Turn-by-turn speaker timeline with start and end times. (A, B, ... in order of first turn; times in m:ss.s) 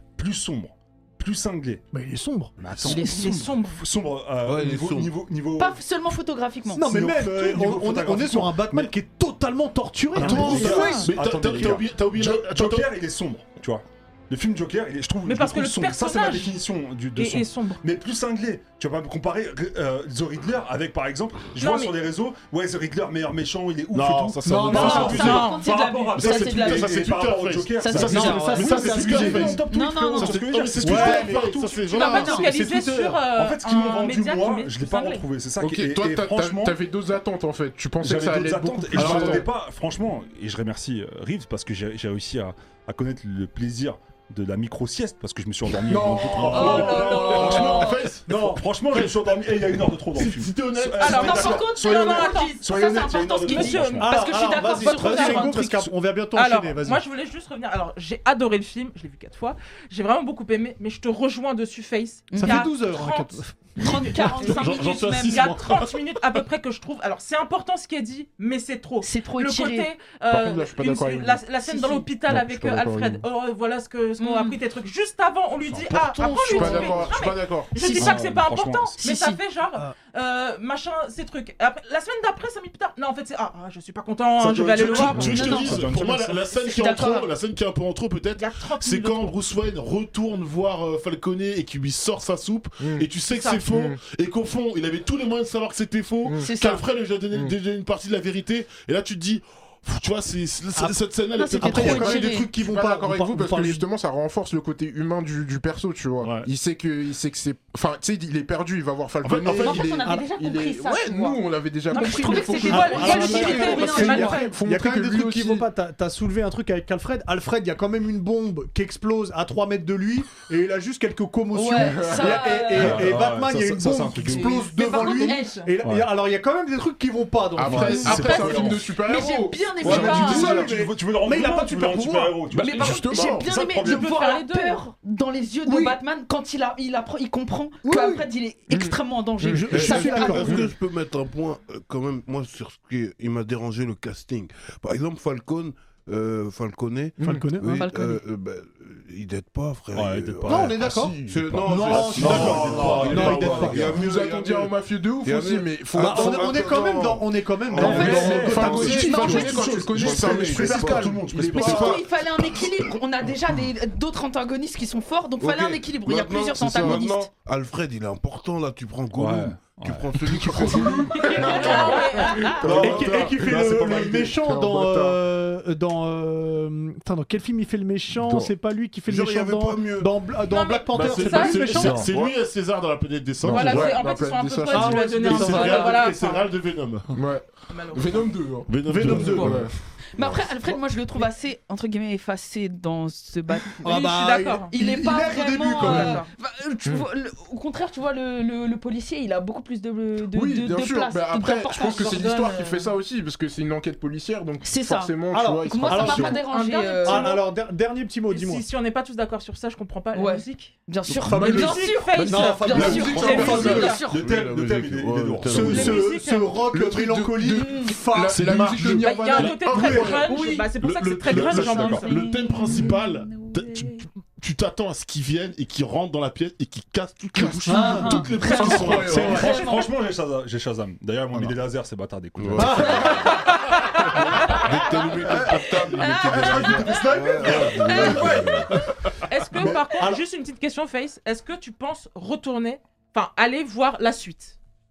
0:00.2-0:01.8 A
0:01.9-0:02.6 B
0:02.6-0:05.8 A
0:02.8-0:03.8 C
0:02.9-0:03.3 D
0:04.4-0:05.1 E
0:05.6-0:06.8 D
0:06.7-0:11.1 B
0:06.8-0:08.9 A
0:10.1-0:31.6 A
0:10.1-0:12.9 F
0:10.5-0:11.1 C
0:15.2-0:16.6 C
0:17.2-0:17.8 C
0:21.6-0:21.9 C
0:23.9-0:25.5 F
0:24.4-0:25.4 B
0:24.7-0:27.1 D
0:24.7-0:25.8 C
0:26.2-0:32.4 F
0:27.8-0:30.4 D
0:28.0-0:29.6 B
0:30.8-0:31.6 B
0:31.9-0:35.2 C
0:31.9-0:32.5 D
0:32.1-0:33.2 B
0:33.3-0:36.8 A
0:35.6-0:39.5 G
0:38.0-0:54.2 A
0:38.9-0:39.4 F
0:39.0-0:39.4 B
0:45.9-0:46.7 G
0:46.3-0:48.1 D
0:46.3-0:51.6 F
0:48.3-0:48.6 B
0:51.0-0:55.6 D
0:51.0-0:55.7 C
0:54.0-0:57.0 B
0:55.5-0:55.9 A
0:56.3-1:25.6 C
1:02.3-1:02.7 D
1:02.4-1:03.5 B
1:03.8-1:05.6 D
1:04.4-1:06.0 F
1:09.0-1:09.9 D
1:10.3-1:11.5 G
1:11.6-1:12.1 D
1:12.2-1:13.2 G
1:14.2-1:14.6 D
1:15.6-1:16.1 A
1:16.1-1:17.2 D
1:16.2-1:16.8 F
1:16.5-1:17.7 G
1:17.7-1:18.3 D
1:17.8-1:19.0 A
1:19.0-1:19.4 D
1:24.4-1:26.4 A
1:24.5-1:42.3 F
1:24.8-1:25.9 D
1:26.5-1:27.3 D
1:28.4-1:29.3 C
1:32.8-1:33.1 G
1:33.3-1:33.6 C
1:33.6-1:34.0 G
1:36.2-1:36.5 G
1:36.4-1:36.8 D
1:41.3-1:42.5 D
1:41.5-1:43.8 B
1:41.6-1:55.7 G
1:46.2-1:46.5 F
1:49.2-1:50.1 F
1:49.5-1:54.6 D
1:51.9-1:54.5 C
1:52.6-2:08.2 B
2:01.5-2:03.2 D
2:01.8-2:02.6 G
2:02.7-2:04.6 A
2:04.2-2:05.7 D
2:04.4-2:05.6 C
2:05.8-2:06.1 A
2:07.6-2:10.8 G
2:07.6-2:08.9 A
2:07.8-2:10.5 D
2:09.8-2:14.1 A
2:09.8-2:12.4 B
2:09.9-2:10.5 C
2:12.5-2:13.5 G
2:12.5-2:20.6 D
2:13.8-2:14.8 C
2:15.6-2:16.0 B
2:17.8-2:18.2 B
2:18.7-2:20.7 G
2:19.5-2:20.6 B
2:19.7-2:38.3 E
2:27.2-2:27.5 G
2:27.2-2:27.8 B
2:27.6-2:28.2 D
2:29.9-2:34.1 A
2:30.4-2:33.9 B
2:32.1-2:34.0 F
2:33.8-2:42.6 G
2:35.9-2:39.8 B
2:37.8-2:39.6 D
2:37.9-2:42.0 A
2:40.1-2:40.9 E
2:41.5-2:47.3 D
2:45.4-2:51.5 E
2:46.7-2:47.0 G
2:49.2-2:52.0 A
2:51.1-2:52.7 D
2:51.3-2:52.6 C
2:51.4-2:55.2 G
2:52.5-2:54.4 A
2:52.8-3:02.1 B
2:58.1-2:58.5 G
2:59.1-3:00.1 E
3:00.5-3:01.7 C
3:00.9-3:04.0 F
3:00.9-3:02.3 G
3:03.4-3:05.4 G
3:03.4-3:06.5 C
3:04.7-3:05.9 B
3:05.2-3:07.1 F
3:05.5-3:06.0 D
3:07.1-3:09.7 G
3:07.7-3:08.3 C
3:08.7-3:09.7 F
3:08.9-3:09.5 B
3:10.1-3:13.9 D
3:13.8-3:14.7 C
3:13.8-3:16.2 B
3:14.7-3:22.4 D
3:15.3-3:16.3 C
3:20.3-3:26.8 G
3:21.8-3:22.9 C
3:24.6-3:27.3 D
3:25.3-3:26.4 B
3:26.4-3:27.4 C
3:27.0-3:28.6 B
3:28.3-3:30.8 C
3:30.1-3:34.3 D
3:31.2-3:34.0 B
3:31.2-3:33.9 G
3:31.4-3:34.0 C
3:32.7-3:36.0 A
3:34.1-3:36.0 E
3:35.4-3:38.8 B
3:35.7-3:36.6 C
3:36.7-3:40.6 G
3:37.5-3:38.0 D
3:38.3-3:40.2 F
3:39.0-3:42.2 C
3:39.8-3:40.0 B
3:39.9-3:40.7 D
3:40.8-3:49.4 F
3:41.3-3:42.1 A
3:41.6-3:44.0 D
3:47.4-3:49.6 B
3:47.5-3:50.0 D
3:48.6-3:49.3 G
3:49.1-3:53.3 A
3:52.4-3:53.3 E
3:52.6-3:53.1 B
3:52.7-3:54.8 D
3:54.5-3:58.8 E
3:55.5-3:58.7 D
3:56.2-3:58.5 A
3:59.3-4:04.6 C
3:59.7-4:00.2 B